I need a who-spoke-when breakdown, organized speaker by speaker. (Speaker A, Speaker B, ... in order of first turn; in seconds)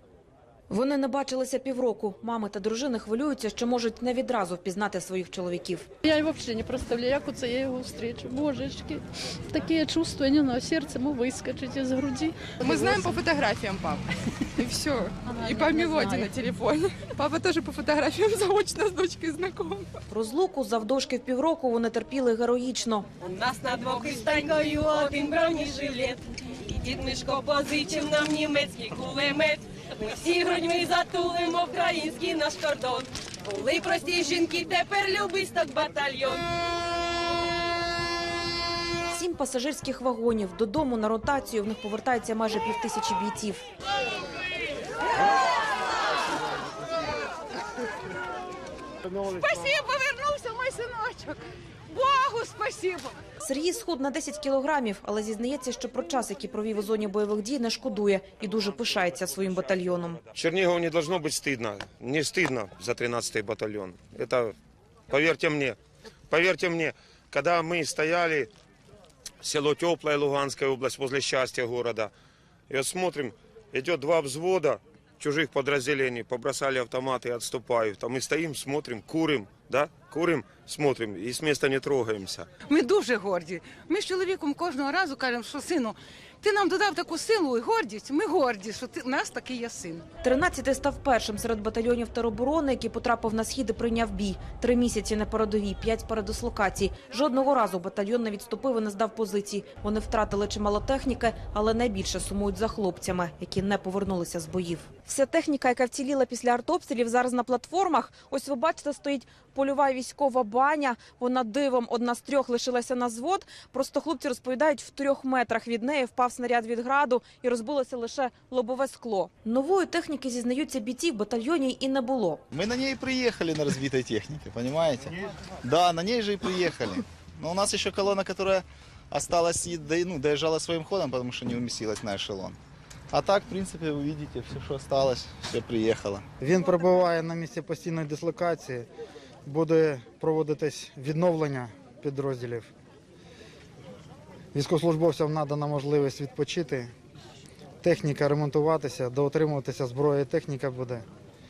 Speaker A: 0.7-5.9, 20.1-23.1, 39.1-43.6, 53.4-60.2, 90.2-122.4
Speaker B: 6.0-13.2, 15.2-16.3
Speaker C: 12.6-20.0
Speaker D: 23.2-36.4
Speaker E: 49.3-53.2, 82.7-90.0
Speaker F: 60.3-64.5, 65.1-65.8, 66.3-68.5, 69.4-72.1, 72.7-82.5
Speaker G: 122.5-132.6, 133.1-136.2
Speaker H: 136.4-138.9, 139.4-142.7, 144.5-146.9, 147.8-151.0